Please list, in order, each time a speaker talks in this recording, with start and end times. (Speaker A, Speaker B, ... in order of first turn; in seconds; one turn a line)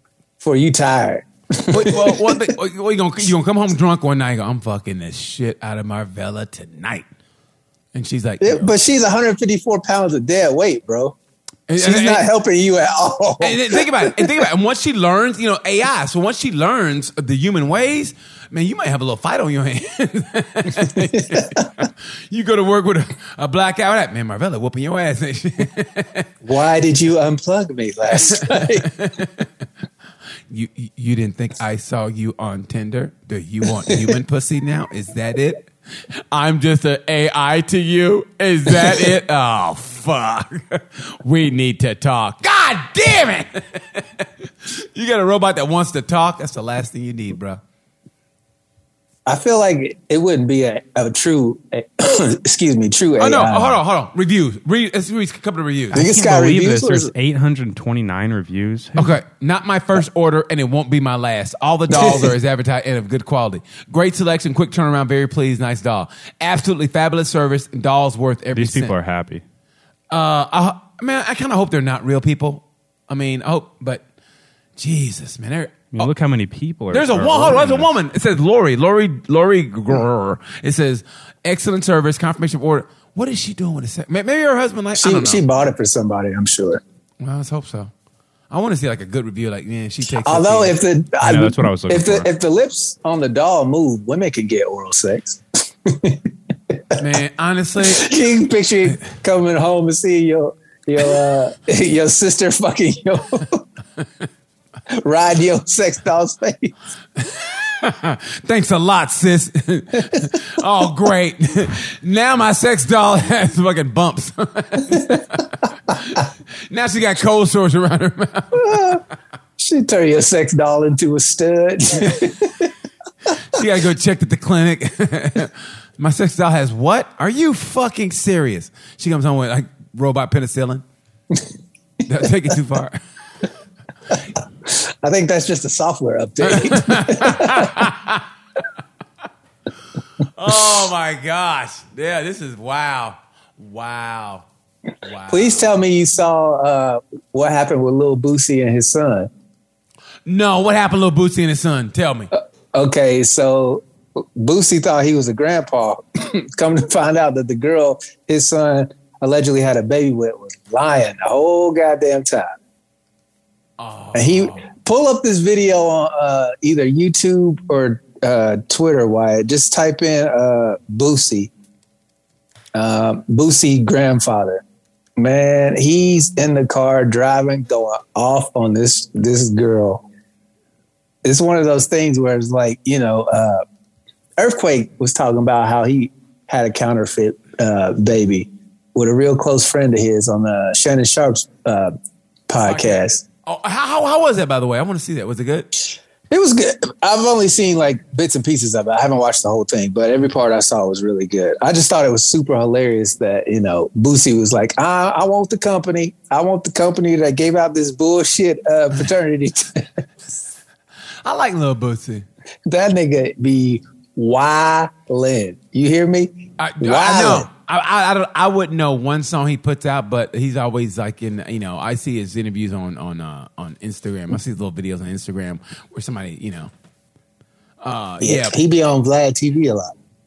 Speaker A: 0.4-2.5
Speaker B: 1.7-7.1
Speaker B: 7.9-8.7
Speaker A: 8.4-11.2
Speaker B: 11.7-12.2
Speaker A: 11.8-14.5
Speaker B: 13.4-26.3
Speaker A: 20.9-21.6
Speaker A: 26.4-28.9
Speaker B: 28.2-29.5
Speaker B: 30.5-35.7
Speaker B: 36.3-47.6
Speaker A: 49.3-53.8
Speaker B: 53.2-56.0
Speaker A: 55.9-57.1
Speaker C: 55.9-59.1
Speaker B: 59.0-69.0
Speaker A: 62.0-62.3
Speaker C: 68.5-69.4
Speaker B: 70.1-74.0
Speaker B: 74.8-76.1
Speaker C: 75.9-77.9
Speaker B: 76.9-85.4
Speaker A: 85.0-86.8
Speaker B: 87.2-87.9
Speaker B: 88.5-90.8
Speaker A: 90.1-97.0
Speaker C: 91.2-92.3
Speaker B: 97.0-98.1
Speaker A: 97.8-103.7
Speaker A: 104.9-106.7
Speaker B: 107.2-119.0
Speaker A: 114.9-115.2
Speaker A: 118.6-119.0
Speaker A: 119.6-122.7
Speaker B: 123.5-130.8
Speaker B: 132.1-133.0
Speaker A: 134.6-137.8
Speaker B: 136.4-138.2
Speaker B: 140.2-144.5
Speaker B: 145.0-145.7
Speaker A: 145.3-149.3
Speaker B: 150.3-152.3
Speaker A: 152.3-162.5
Speaker B: 163.8-164.7
Speaker A: 164.1-171.5
Speaker A: 172.8-174.6
Speaker A: 175.2-180.1
Speaker A: 181.2-183.6
Speaker A: 184.4-191.9
Speaker A: 192.5-193.2
Speaker B: 192.6-195.7
Speaker A: 196.3-210.0
Speaker B: 211.2-212.3
Speaker A: 212.7-217.5
Speaker B: 216.6-226.7
Speaker B: 227.8-228.6
Speaker A: 228.2-229.9